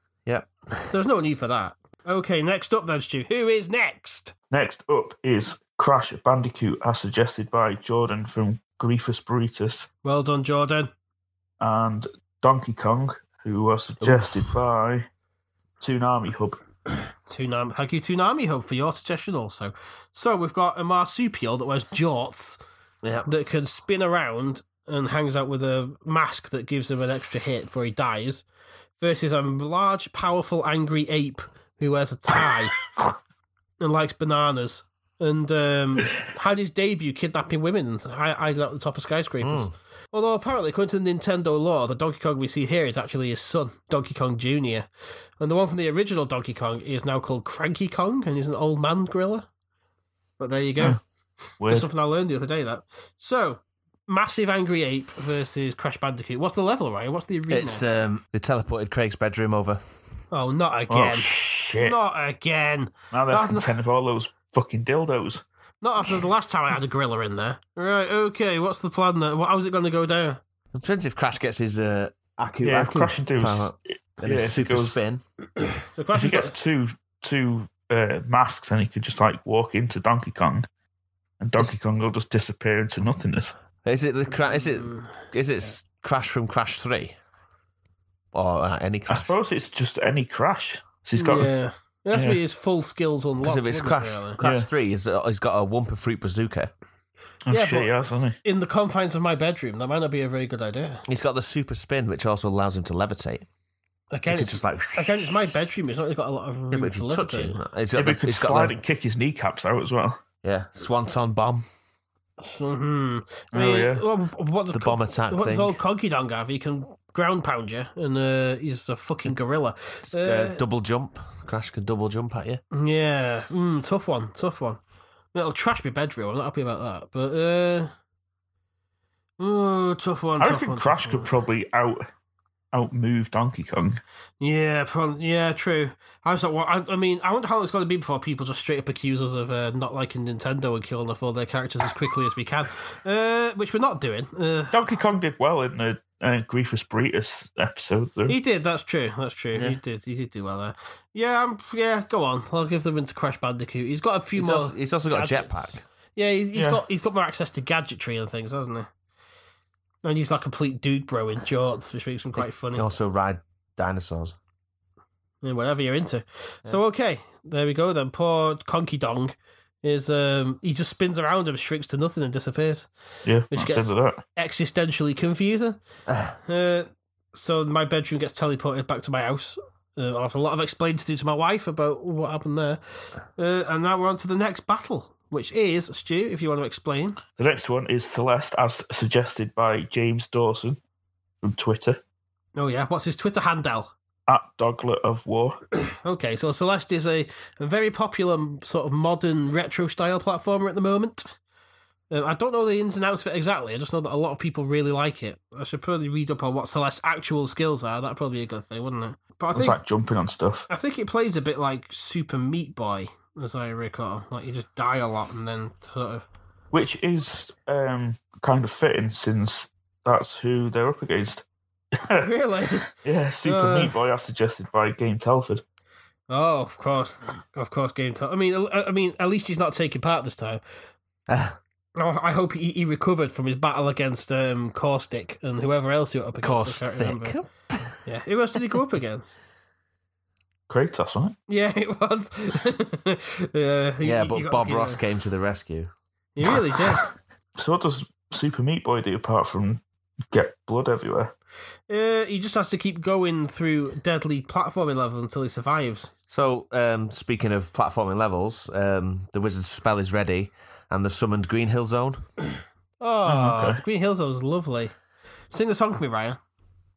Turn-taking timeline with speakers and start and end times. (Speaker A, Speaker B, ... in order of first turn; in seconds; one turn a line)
Speaker A: 0.3-0.9
Speaker B: 0.9-4.3
Speaker C: 4.5-9.9
Speaker B: 10.0-10.9
Speaker C: 11.6-15.1
Speaker A: 14.0-14.6
Speaker C: 15.8-16.6
Speaker B: 17.3-22.6
Speaker A: 23.0-23.3
Speaker B: 23.2-28.4
Speaker B: 29.0-32.8
Speaker B: 33.8-44.9
Speaker A: 39.4-39.7
Speaker B: 45.4-49.5
Speaker B: 50.4-51.0
Speaker C: 51.6-51.9
Speaker B: 51.6-57.9
Speaker A: 57.5-59.8
Speaker B: 60.3-63.7
Speaker C: 60.9-62.0
Speaker C: 63.1-65.4
Speaker B: 65.8-70.4
Speaker A: 70.7-75.2
Speaker C: 72.6-75.0
Speaker B: 75.9-76.5
Speaker C: 76.1-80.7
Speaker C: 81.4-83.5
Speaker A: 83.8-87.2
Speaker B: 84.5-85.1
Speaker A: 88.3-89.3
Speaker C: 89.1-91.5
Speaker B: 91.2-94.4
Speaker C: 92.1-92.4
Speaker A: 93.4-96.7
Speaker C: 94.4-94.7
Speaker C: 97.5-98.4
Speaker B: 97.5-97.9
Speaker B: 98.4-101.0
Speaker A: 101.1-103.5
Speaker B: 104.1-107.6
Speaker A: 104.3-105.5
Speaker A: 106.7-108.8
Speaker C: 108.0-110.2
Speaker A: 110.4-111.7
Speaker B: 112.4-120.6
Speaker C: 113.5-114.0
Speaker A: 114.7-115.8
Speaker A: 120.1-122.6
Speaker B: 122.7-124.8
Speaker B: 125.3-127.9
Speaker B: 129.4-131.3
Speaker C: 130.4-132.1
Speaker C: 132.7-134.0
Speaker B: 134.4-144.8
Speaker C: 144.7-148.4
Speaker B: 148.3-158.9
Speaker A: 149.5-149.8
Speaker A: 154.3-155.8
Speaker C: 156.6-156.8
Speaker B: 160.0-162.9
Speaker A: 162.4-164.4
Speaker B: 165.4-172.9
Speaker C: 173.2-174.2
Speaker B: 173.5-175.8
Speaker A: 176.1-176.3
Speaker B: 176.5-187.2
Speaker C: 187.4-190.8
Speaker C: 191.4-192.0
Speaker B: 192.6-193.9
Speaker C: 194.3-195.6
Speaker B: 195.9-201.3
Speaker B: 202.1-209.8
Speaker C: 209.5-210.7
Speaker B: 210.7-216.2
Speaker C: 216.7-222.3
Speaker B: 222.2-222.9
Speaker C: 222.9-225.6
Speaker B: 223.4-223.9
Speaker B: 226.3-230.6
Speaker A: 231.3-231.6
Speaker B: 232.0-237.4
Speaker A: 236.4-238.1
Speaker B: 238.1-239.4
Speaker C: 240.7-241.4
Speaker B: 241.5-245.0
Speaker A: 244.0-245.9
Speaker B: 246.4-247.1
Speaker C: 247.6-251.3
Speaker B: 251.9-256.1
Speaker A: 256.3-262.3
Speaker B: 263.0-264.9
Speaker C: 263.3-263.8
Speaker B: 265.5-266.4